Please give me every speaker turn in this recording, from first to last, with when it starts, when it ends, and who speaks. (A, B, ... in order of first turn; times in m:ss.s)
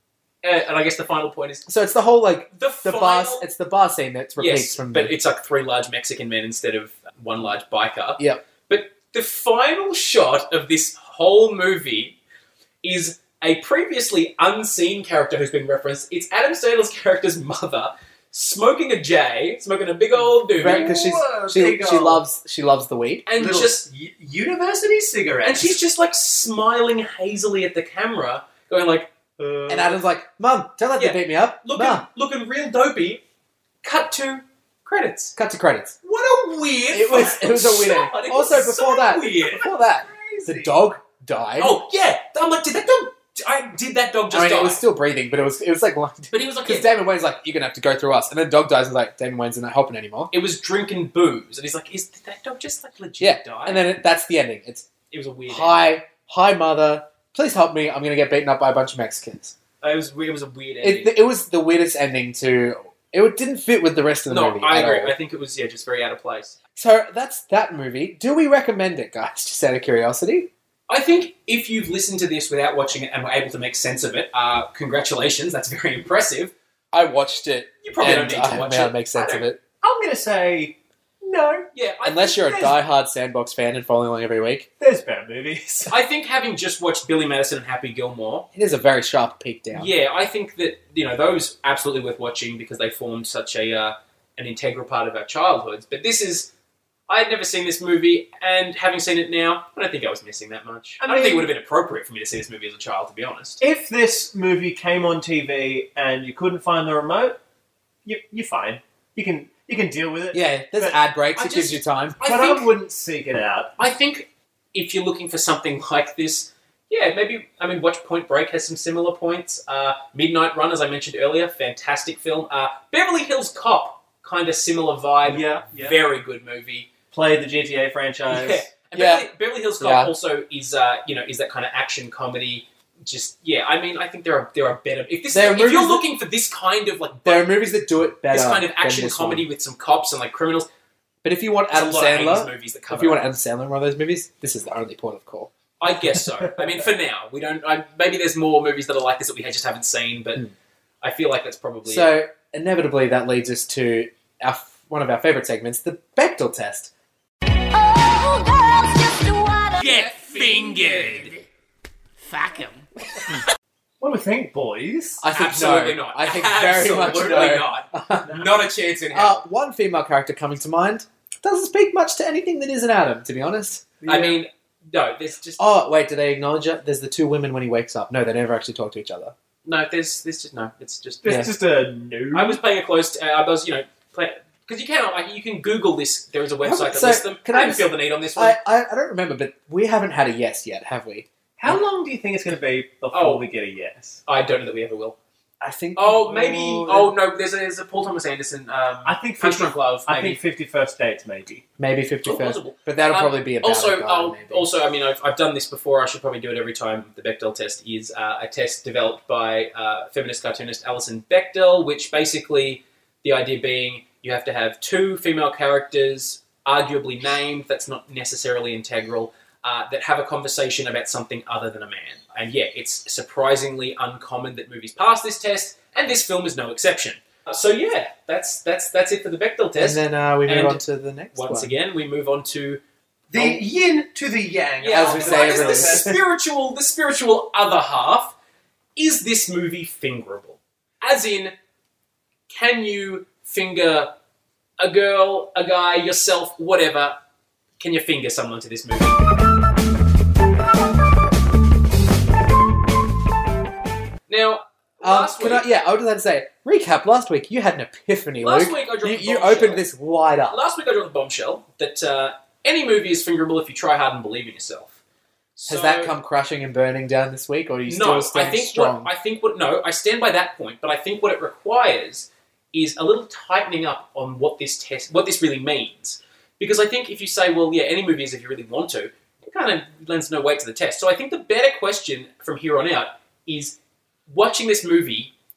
0:00.4-0:01.7 A
0:01.7-0:05.1 B
0:02.5-0:03.5 A
0:04.4-0:12.2 A
0:12.8-0:20.9 A
0:20.5-0:22.2 C
0:20.6-0:23.2 B
0:23.3-0:23.9 A
0:23.4-0:25.8 C
0:25.4-0:29.1 A
0:29.4-0:30.0 C
0:29.7-0:32.0 B
0:31.0-0:33.2 A
0:33.8-0:35.4 A
0:35.4-0:36.0 B
0:36.0-0:39.7 A
0:36.9-0:41.8 B
0:40.0-0:40.8 C
0:41.6-0:44.8 A
0:44.3-0:50.3 B
0:46.3-0:46.9 A
0:50.3-0:53.9 A
0:53.2-0:54.9 B
0:55.1-0:55.9 A
0:55.5-0:59.6 B
0:59.8-1:01.2 A
1:00.8-1:05.1 B
1:04.3-1:06.6 A
1:06.8-1:10.5 B
1:10.9-1:16.5 A
1:16.9-1:19.6 B
1:17.8-1:19.4 A
1:19.8-1:21.7 C
1:21.7-1:22.5 A
1:22.1-1:24.7 B
1:22.5-1:22.7 C
1:24.8-1:25.9 C
1:25.9-1:28.5 A
1:28.5-1:29.9 B
1:29.7-1:36.5 A
1:37.1-1:43.6 A
1:41.0-1:41.5 C
1:43.6-1:47.4 C
1:48.0-1:51.0 C
1:50.3-1:52.2 B
1:51.4-1:52.7 A
1:52.2-1:53.7 C
1:53.8-2:06.9 A
2:05.3-2:06.0 C
2:07.1-2:08.7 C
2:08.3-2:17.6 A
2:08.9-2:09.3 B
2:09.8-2:10.1 B
2:15.3-2:16.0 B
2:17.3-2:19.5 B
2:18.3-2:20.7 A
2:21.2-2:25.5 B
2:21.7-2:23.2 A
2:25.8-2:30.5 A
2:31.0-2:32.1 A
2:31.9-2:36.9 B
2:37.8-2:41.5 D
2:39.8-2:41.4 A
2:42.2-2:43.4 D
2:44.0-2:45.2 C
2:45.2-2:48.4 B
2:45.3-2:49.4 A
2:49.1-2:53.9 B
2:54.0-2:54.4 C
2:54.1-2:55.6 A
2:55.6-2:59.3 B
2:59.6-3:01.5 A
3:01.2-3:02.6 C
3:02.3-3:08.6 A
3:06.6-3:11.8 B
3:11.6-3:14.2 C
3:13.1-3:13.4 A
3:14.3-3:15.2 A
3:15.6-3:17.1 B
3:16.0-3:20.4 A
3:19.0-3:21.6 C
3:21.8-3:24.7 B
3:22.2-3:52.8 A
3:49.8-3:51.7 B
3:53.3-3:56.2 C
3:54.8-3:58.4 A
3:54.9-3:56.2 B
3:59.0-4:01.5 A
4:02.5-4:04.1 A
4:04.8-4:07.2 A
4:07.8-4:09.2 A
4:14.3-4:15.6 A
4:15.0-4:20.6 B
4:18.4-4:19.8 A
4:20.5-4:25.0 A
4:25.6-4:26.2 A
4:25.7-4:29.1 B
4:27.9-4:43.8 A
4:44.3-4:45.3 A